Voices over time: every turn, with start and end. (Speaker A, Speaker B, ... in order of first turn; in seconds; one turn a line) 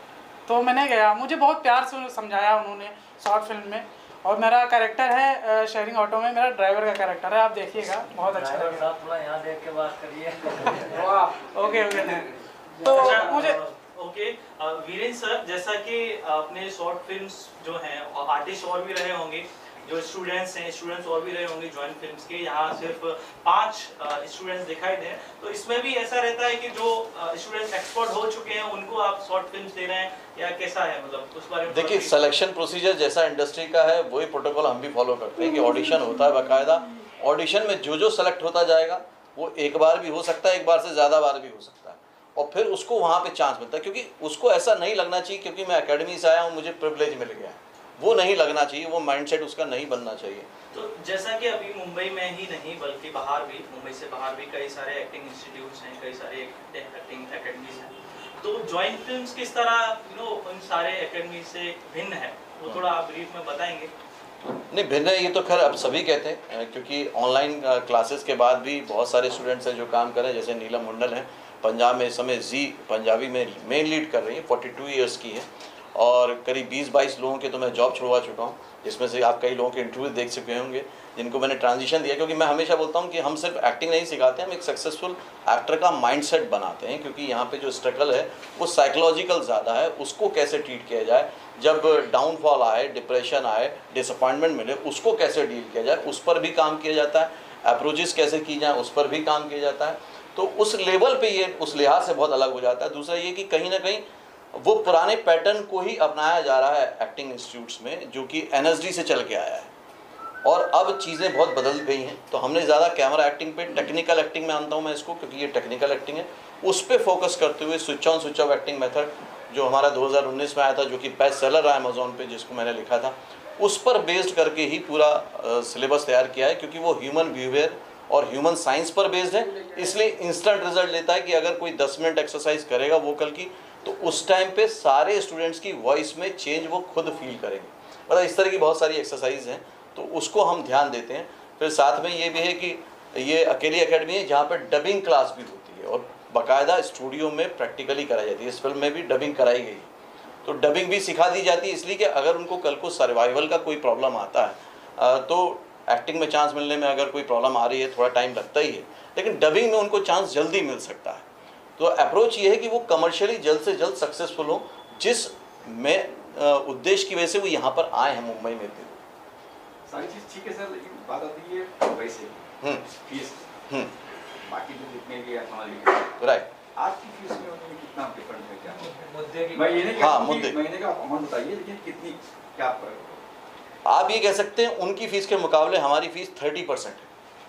Speaker A: 0.5-8.8
Speaker B: 8.3-11.2
Speaker A: 10.9-13.6
Speaker C: 12.9-32.3
Speaker D: 31.7-50.5
Speaker C: 50.7-63.9
Speaker D: 64.7-109.7
Speaker D: 110.4-149.9
Speaker D: 150.4-161.2
Speaker D: 161.8-169.0
Speaker E: 169.9-173.5
Speaker D: 172.6-172.9
Speaker E: 174.4-176.2
Speaker D: 176.2-176.5
Speaker E: 176.8-178.9
Speaker B: 178.7-180.0
Speaker E: 179.5-183.2
Speaker D: 179.9-180.6
Speaker D: 183.8-187.1